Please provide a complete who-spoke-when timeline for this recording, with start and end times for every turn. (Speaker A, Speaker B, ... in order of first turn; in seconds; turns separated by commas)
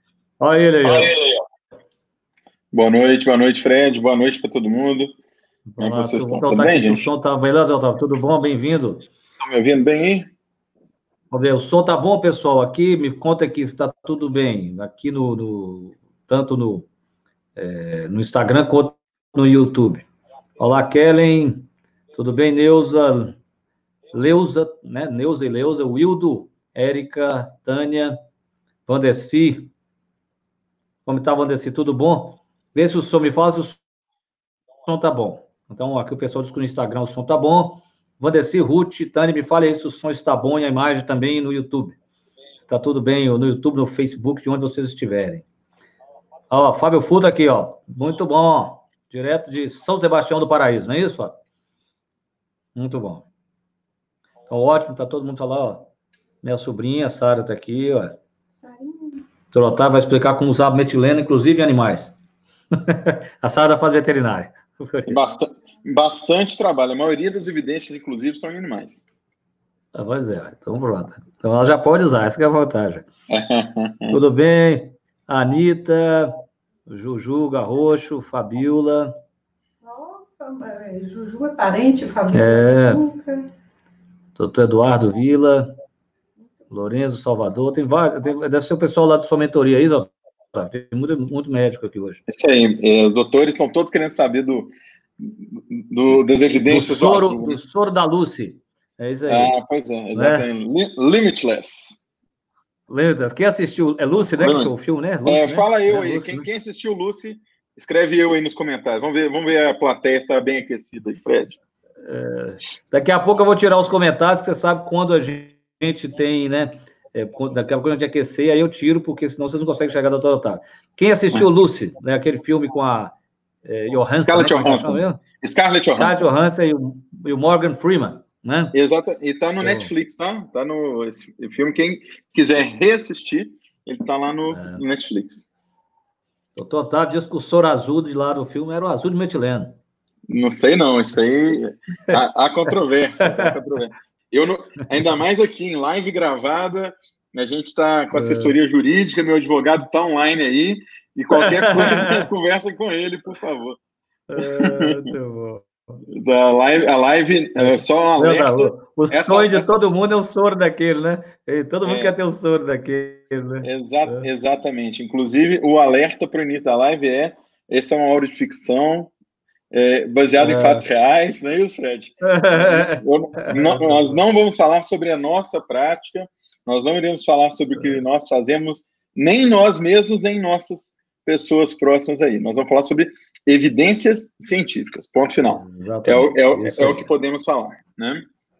Speaker A: 0.4-1.1, Speaker B: 0.8-1.4, Speaker B: 2.7-5.1, Speaker A: 5.7-9.1, Speaker B: 5.8-7.1, Speaker B: 9.4-10.3, Speaker A: 11.3-16.9, Speaker A: 17.6-20.1, Speaker A: 20.6-23.4, Speaker A: 24.1-28.2, Speaker A: 28.9-29.7, Speaker A: 31.1-33.8, Speaker A: 34.9-42.0, Speaker A: 42.6-45.5, Speaker A: 46.5-51.4, Speaker A: 52.8-53.2, Speaker A: 54.5-55.9, Speaker A: 56.4-58.2, Speaker C: 58.6-59.2, Speaker A: 59.5-62.1, Speaker A: 62.8-65.2, Speaker B: 65.1-69.0, Speaker A: 69.9-73.1, Speaker B: 73.3-74.2, Speaker A: 74.1-76.3, Speaker A: 76.9-79.2, Speaker C: 79.8-83.5, Speaker A: 82.3-83.0, Speaker A: 84.4-85.7, Speaker A: 86.7-92.2, Speaker B: 92.3-97.6, Speaker A: 96.7-99.5, Speaker B: 99.3-102.0, Speaker A: 100.1-100.5, Speaker A: 102.9-106.5, Speaker B: 104.4-104.7, Speaker B: 105.2-111.6, Speaker A: 112.0-123.1, Speaker A: 123.6-125.2, Speaker B: 124.2-126.2, Speaker A: 126.0-128.7, Speaker B: 128.7-135.5, Speaker A: 129.6-129.9, Speaker A: 134.5-134.8, Speaker A: 136.6-139.7, Speaker B: 140.3-153.8, Speaker A: 143.2-143.5, Speaker A: 148.1-148.5, Speaker A: 151.3-152.3, Speaker A: 154.3-156.0, Speaker B: 154.4-155.1, Speaker B: 156.1-159.8, Speaker A: 157.6-164.3, Speaker B: 161.8-162.2, Speaker B: 163.6-169.1, Speaker B: 169.7-188.2, Speaker A: 170.4-170.8, Speaker A: 172.2-174.2, Speaker A: 185.4-187.1